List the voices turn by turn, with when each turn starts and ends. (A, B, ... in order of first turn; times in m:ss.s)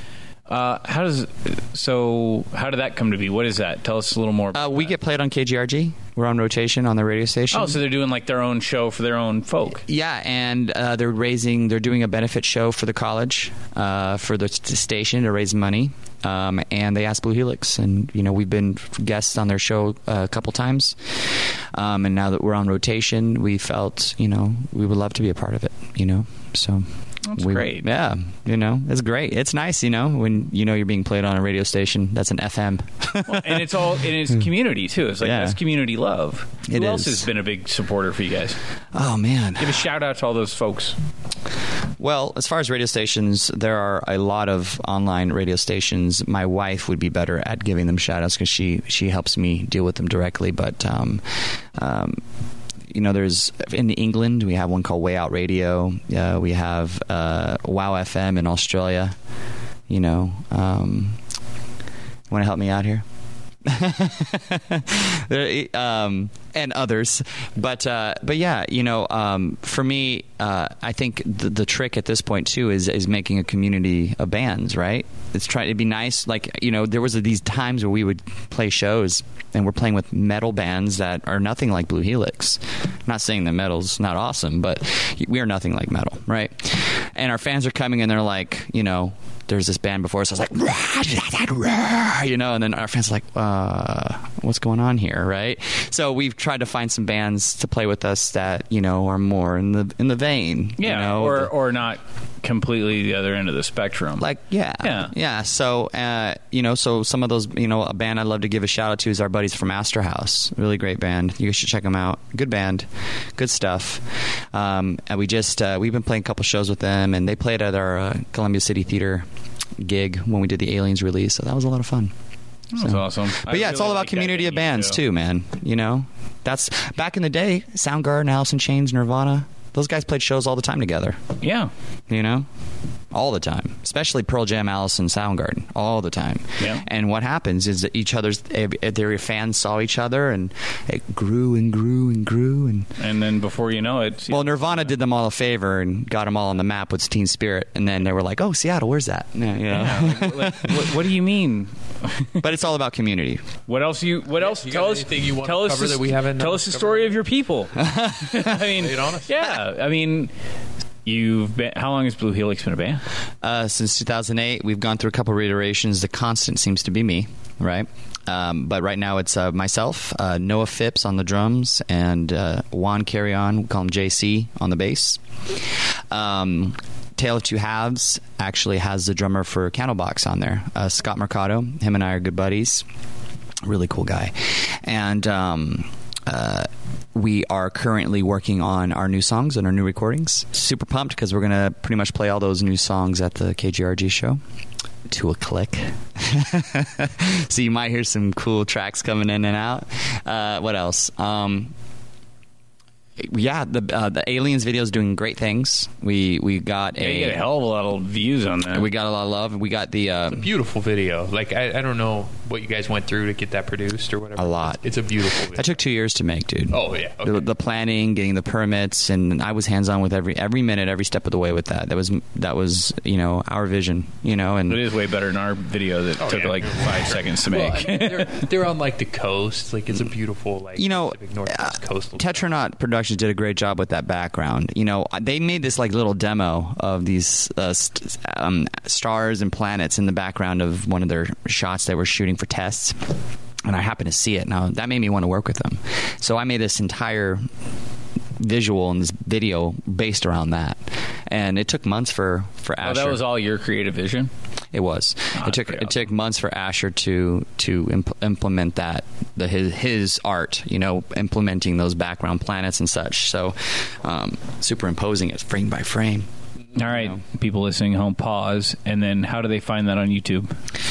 0:00.5-0:04.9 A
0:04.5-0:07.8 B
0:07.5-0:09.8 A
0:09.9-0:34.4 B
0:27.3-0:27.9 A
0:33.3-0:38.6 A
0:35.2-0:35.6 B
0:36.7-0:37.3 B
0:38.9-0:39.8 B
0:39.6-0:41.0 A
0:42.0-0:52.2 B
0:52.9-0:59.2 B
0:59.9-1:01.2 B
1:02.3-1:03.0 B
1:03.6-1:41.5 B
1:40.8-1:44.3 A
1:44.2-1:59.2 B
1:44.8-1:45.1 A
1:59.8-2:02.1 B
2:02.7-2:05.0 A
2:02.8-2:11.2 B
2:11.4-2:11.7 A
2:12.1-2:12.5 B
2:13.1-2:22.9 B
2:23.0-2:25.0 A
2:24.3-2:30.9 B
2:29.7-2:32.4 A
2:32.4-2:33.5 B
2:33.7-2:37.7 A
2:34.4-2:37.2 C
2:37.8-2:38.7 B
2:38.3-2:40.3 A
2:38.7-2:39.3 C
2:41.0-2:43.0 A
2:43.4-3:02.8 B
3:03.6-3:14.4 B
3:15.1-3:21.7 B
3:23.2-3:27.4 B
3:27.0-3:28.9 A
3:28.7-3:30.5 B
3:30.3-3:35.8 C
3:34.4-3:44.8 B
3:36.7-3:37.4 C
3:44.7-3:48.5 A
3:46.2-3:52.5 C
3:50.8-4:03.0 B
4:03.7-4:07.4 B
4:08.4-4:13.2 B
4:12.8-4:14.3 A
4:14.7-4:27.2 B
4:15.4-4:16.0 A
4:26.8-4:30.5 A